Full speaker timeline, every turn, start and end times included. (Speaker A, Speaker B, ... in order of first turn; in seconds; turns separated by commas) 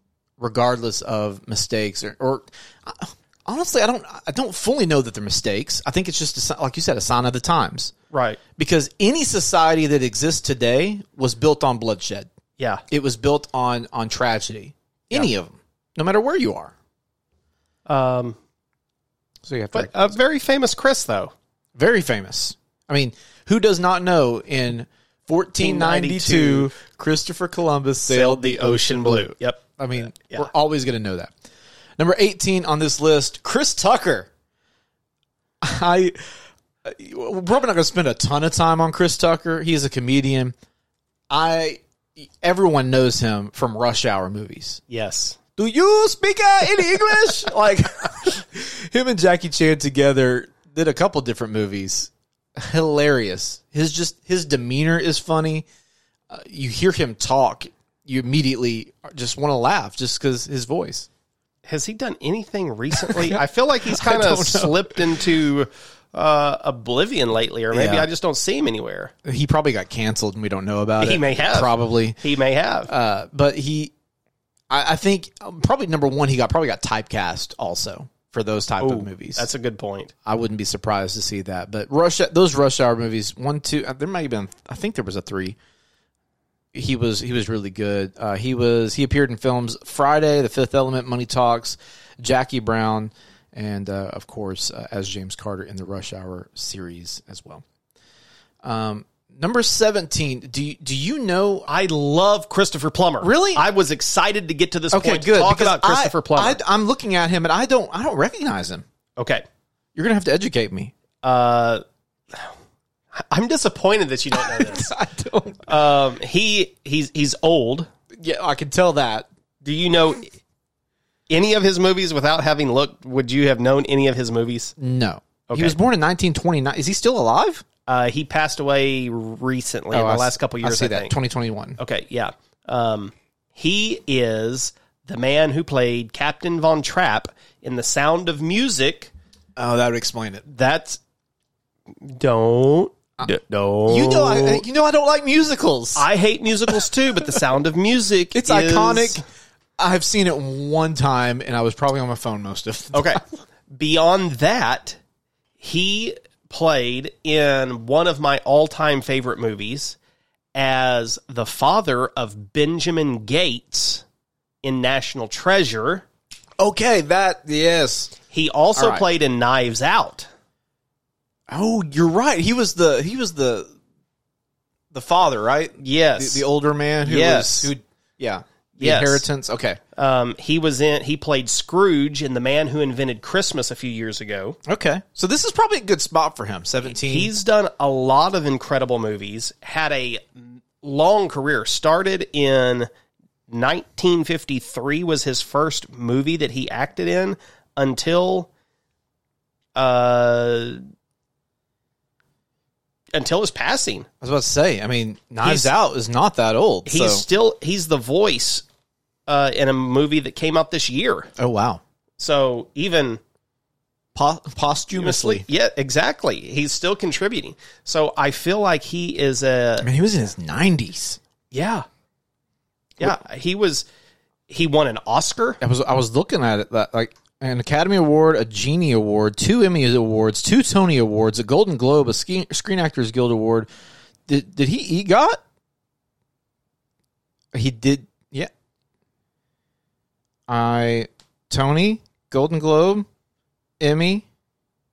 Speaker A: 0.4-7.9, Speaker B: 8.1-8.4, Speaker A: 8.6-12.3, Speaker A: 12.9-16.7, Speaker B: 17.9-18.4, Speaker A: 19.4-19.9, Speaker B: 19.7-21.3, Speaker A: 21.8-31.3, Speaker B: 25.6-26.7, Speaker B: 28.1-30.5, Speaker A: 32.0-34.3, Speaker A: 35.6-40.5, Speaker A: 41.3-44.8, Speaker B: 44.9-45.4, Speaker A: 45.6-55.7, Speaker A: 56.3-61.1, Speaker B: 61.6-69.1, Speaker A: 63.0-65.2, Speaker A: 67.7-68.1, Speaker A: 69.2-72.2, Speaker B: 71.0-72.9, Speaker A: 72.9-73.9, Speaker A: 74.7-79.5, Speaker B: 78.8-80.1, Speaker A: 80.2-85.6, Speaker A: 86.7-97.6, Speaker A: 98.6-101.7, Speaker B: 101.7-106.6, Speaker A: 103.2-103.6, Speaker A: 104.9-108.8, Speaker B: 109.2-109.5, Speaker A: 110.0-110.9, Speaker B: 111.2-112.5, Speaker B: 113.1-114.9, Speaker A: 114.3-115.7, Speaker B: 115.7-117.9, Speaker A: 118.2-119.3, Speaker B: 119.6-120.3, Speaker B: 121.3-124.7, Speaker A: 124.8-127.7, Speaker B: 125.5-125.8, Speaker B: 127.9-131.2, Speaker A: 129.9-131.8, Speaker B: 131.8-139.1, Speaker A: 139.6-140.4, Speaker B: 140.5-141.0, Speaker B: 141.9-144.6, Speaker A: 143.9-146.1, Speaker B: 146.0-149.2, Speaker A: 148.3-149.2, Speaker A: 149.8-153.2, Speaker B: 152.9-155.0, Speaker B: 155.6-160.0, Speaker B: 160.6-164.0, Speaker B: 164.6-166.1, Speaker A: 166.6-168.2, Speaker B: 168.3-170.3, Speaker A: 168.8-169.0, Speaker A: 171.5-173.7, Speaker A: 174.9-179.8, Speaker B: 175.8-176.4, Speaker B: 177.0-177.7, Speaker B: 178.8-179.2, Speaker B: 180.0-184.6, Speaker A: 184.7-187.3, Speaker B: 186.9-192.9, Speaker B: 193.5-198.5, Speaker B: 199.8-200.8, Speaker B: 203.1-204.1, Speaker A: 204.2-207.2, Speaker B: 205.4-205.7, Speaker B: 206.9-208.7, Speaker B: 209.3-211.3, Speaker A: 211.4-211.8, Speaker B: 212.2-213.2, Speaker A: 214.2-215.5, Speaker B: 215.0-219.9, Speaker A: 219.8-221.2, Speaker B: 221.5-221.9, Speaker B: 223.0-223.9, Speaker B: 224.5-225.6, Speaker A: 225.6-233.7, Speaker A: 234.3-235.4, Speaker A: 237.5-238.5, Speaker A: 240.5-243.1, Speaker A: 243.8-244.3